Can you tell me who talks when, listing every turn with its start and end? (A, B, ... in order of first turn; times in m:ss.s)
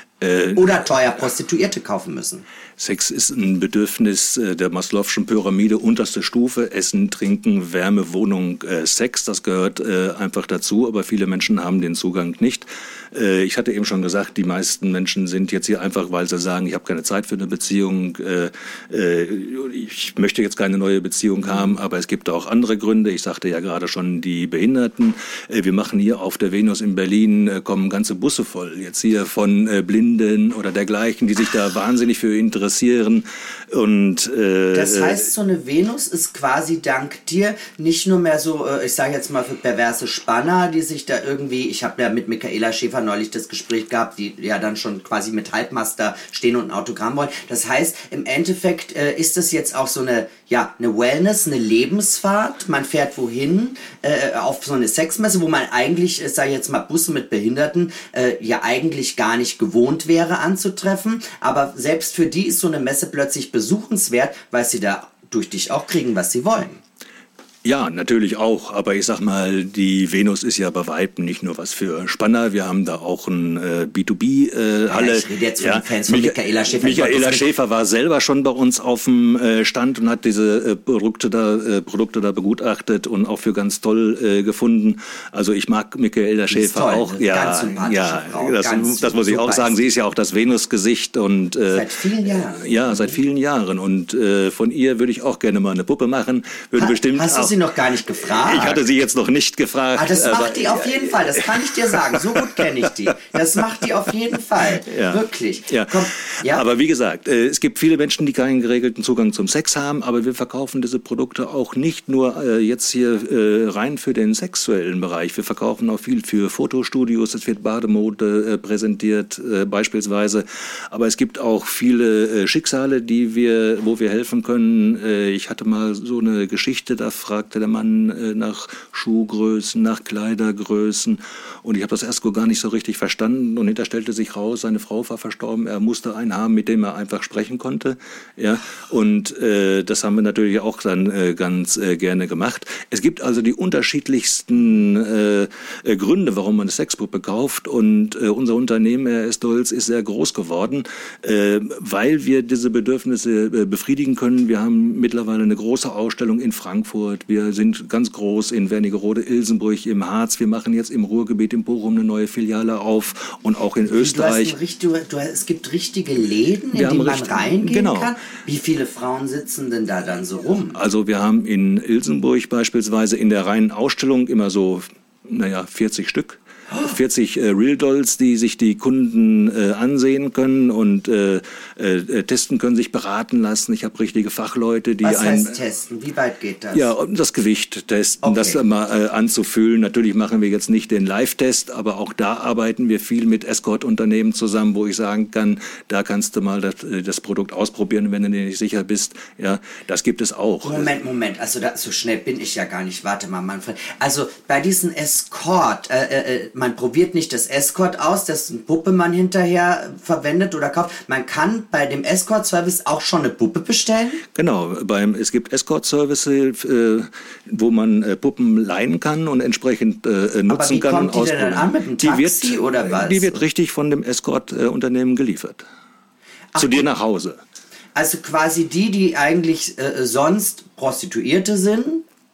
0:00.2-0:00.9 A
0:00.5-0:02.4 B
0:02.8-0:35.2 A
0:34.7-1:06.8 B
1:07.6-1:37.5 A
1:14.9-1:17.5 B
1:26.5-1:29.9 B
1:31.7-1:33.2 B
1:36.7-1:38.8 B
1:38.2-1:42.6 A
1:39.9-1:46.6 B
1:44.8-2:44.6 A
2:43.9-2:50.8 B
2:46.7-2:48.1 A
2:50.7-3:05.6 A
3:05.0-3:06.9 B
3:06.7-3:20.9 A
3:08.2-3:08.6 B
3:20.6-3:34.2 B
3:34.3-3:45.6 A
3:40.5-3:43.4 B
3:46.5-3:46.9 B
3:46.6-3:47.4 A
3:47.9-3:52.0 B